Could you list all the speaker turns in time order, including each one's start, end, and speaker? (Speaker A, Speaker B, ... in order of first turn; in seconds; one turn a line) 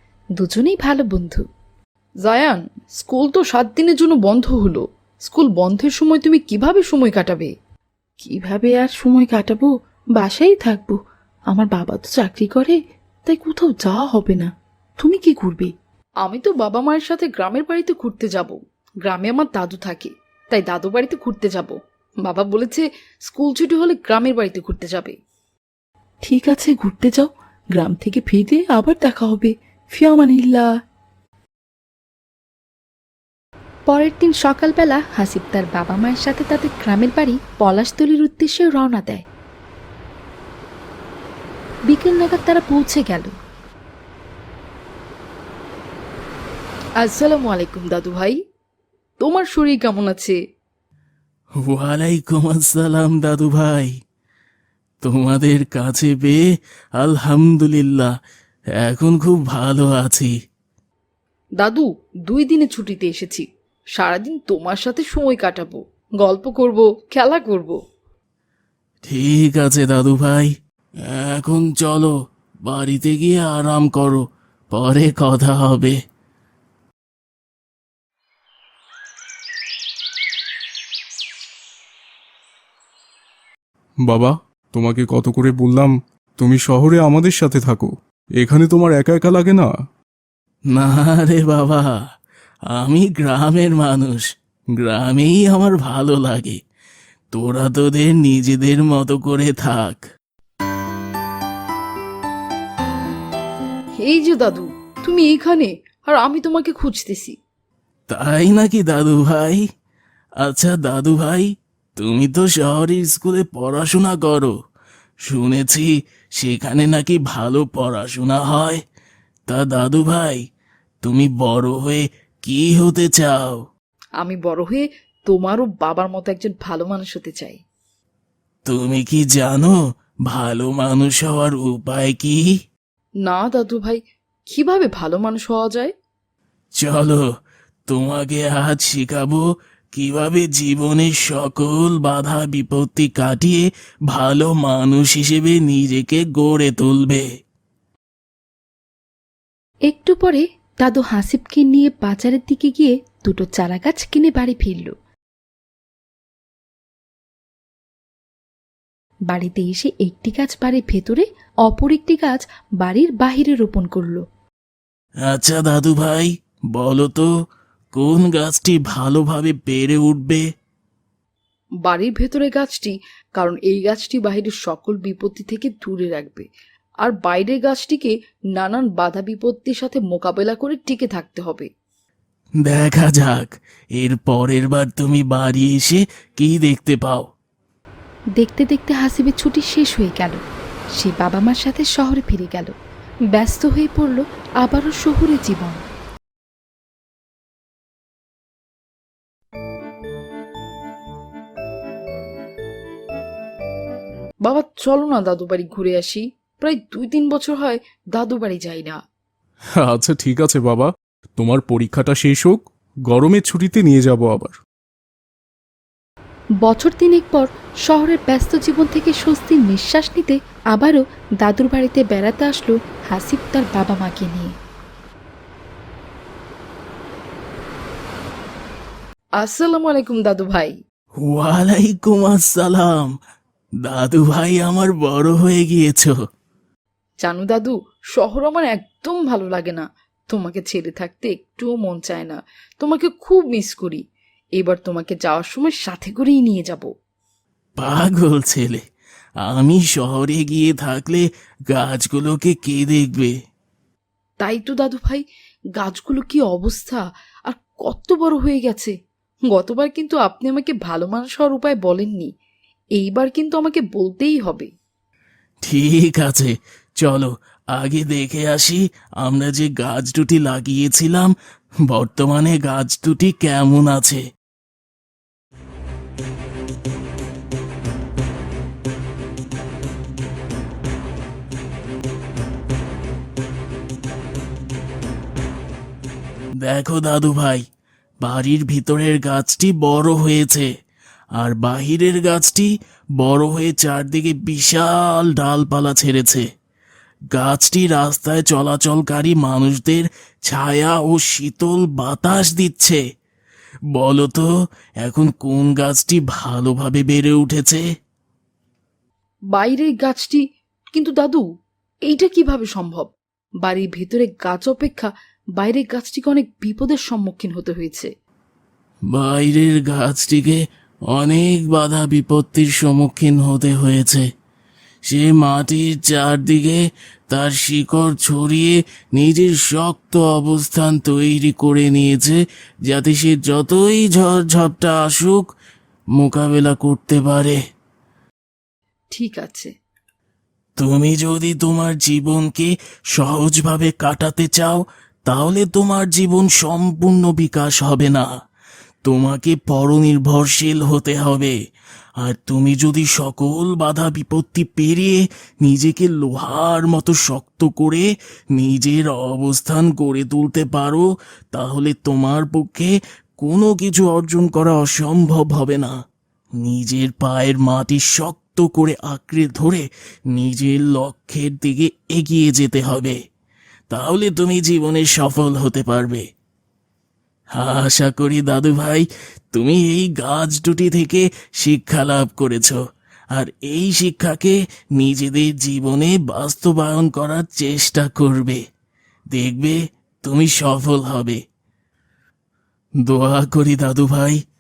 Speaker A: 0.4-1.4
Speaker B: 2.3-7.5
Speaker A: 8.2-11.0
Speaker A: 11.5-12.8
Speaker A: 13.3-15.7
Speaker B: 16.2-21.7
Speaker B: 22.2-25.1
Speaker A: 26.2-30.7
Speaker A: 33.9-39.2
Speaker A: 41.9-43.3
Speaker B: 47.0-48.4
Speaker B: 49.2-50.4
Speaker C: 51.6-53.9
Speaker C: 55.0-56.4
Speaker C: 57.0-58.1
Speaker C: 58.8-60.3
Speaker B: 61.6-63.5
Speaker B: 64.0-67.8
Speaker C: 69.0-70.5
Speaker C: 71.0-72.1
Speaker C: 72.7-76.0
Speaker D: 84.1-89.7
Speaker C: 90.7-92.0
Speaker C: 92.7-96.6
Speaker C: 97.3-100.0
Speaker B: 104.0-107.3
Speaker C: 108.1-109.6
Speaker C: 110.4-114.5
Speaker C: 115.2-118.8
Speaker C: 119.5-120.4
Speaker C: 121.0-123.6
Speaker B: 124.2-127.6
Speaker C: 128.7-132.5
Speaker B: 133.2-134.0
Speaker B: 134.5-135.9
Speaker C: 136.8-137.2
Speaker C: 137.9-147.2
Speaker A: 149.9-154.9
Speaker A: 159.3-164.2
Speaker C: 165.2-167.3
Speaker C: 167.9-170.4
Speaker B: 171.8-176.4
Speaker B: 177.1-181.7
Speaker C: 182.7-187.3
Speaker A: 188.4-190.4
Speaker A: 191.0-192.7
Speaker A: 193.3-195.8
Speaker B: 204.5-209.0
Speaker D: 209.8-214.6
Speaker A: 216.6-224.6
Speaker B: 229.4-230.8
Speaker C: 231.2-233.2
Speaker C: 233.8-236.1
Speaker B: 237.2-244.0
Speaker B: 244.6-246.9
Speaker C: 247.8-248.8
Speaker C: 249.4-253.3
Speaker B: 254.4-255.2
Speaker B: 255.8-257.0
Speaker B: 257.5-258.9
Speaker B: 259.5-262.3
Speaker B: 263.0-264.7
Speaker C: 265.6-271.3
Speaker C: 271.9-274.2
Speaker C: 286.6-287.6
Speaker C: 288.2-290.7
Speaker C: 291.4-296.4
Speaker C: 297.3-303.0
Speaker C: 303.9-304.5
Speaker C: 305.0-307.8
Speaker B: 309.5-310.4
Speaker B: 310.9-311.4
Speaker B: 312.1-313.1
Speaker B: 313.7-318.1
Speaker C: 319.1-320.6
Speaker C: 321.1-324.2
Speaker C: 325.1-335.5
Speaker C: 336.2-337.6
Speaker B: 339.1-339.7
Speaker C: 340.8-348.3
Speaker C: 349.0-351.5
Speaker C: 352.2-365.9
Speaker C: 366.6-373.2
Speaker C: 373.9-376.2
Speaker C: 377.6-382.8
Speaker C: 383.3-388.6
Speaker C: 389.3-391.4
Speaker C: 393.1-394.4